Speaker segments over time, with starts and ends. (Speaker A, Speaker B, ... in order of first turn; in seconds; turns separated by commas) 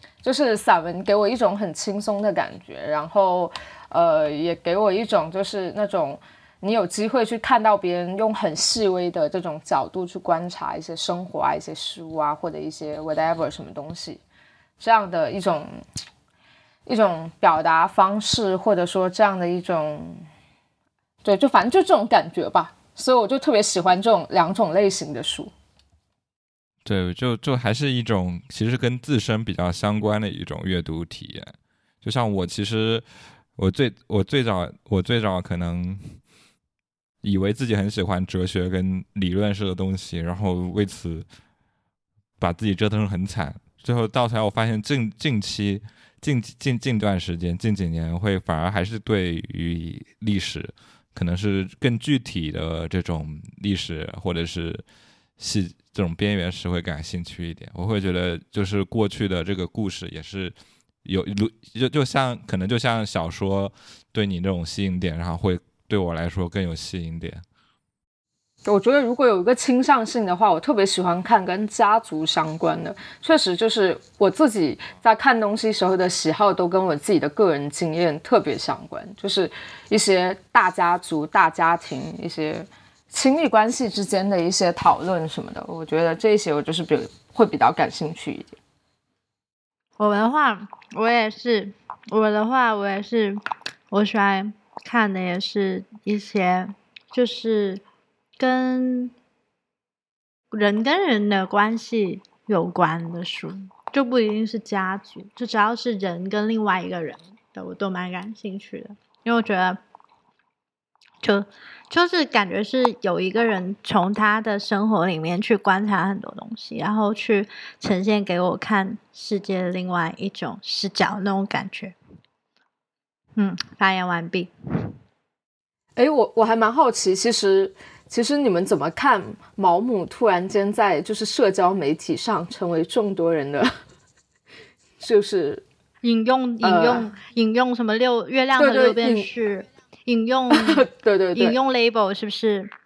Speaker A: 0.2-14.2, Speaker A: 14.8-15.7, Speaker A: 16.9-20.2, Speaker A: 21.2-25.5, Speaker B: 26.9-31.5, Speaker B: 32.0-33.0, Speaker B: 33.6-36.2, Speaker B: 37.2-41.3, Speaker B: 42.4-54.8, Speaker B: 55.4-60.5, Speaker B: 61.0-67.4, Speaker A: 68.7-88.6, Speaker C: 90.0-93.4, Speaker C: 93.9-97.8, Speaker C: 98.4-99.1, Speaker C: 100.5-109.8, Speaker C: 111.2-122.0, Speaker C: 123.4-124.9, Speaker A: 126.0-133.7, Speaker A: 135.0-135.6, Speaker C: 136.0-142.7, Speaker A: 136.6-137.1, Speaker A: 138.6-139.3, Speaker A: 140.5-141.6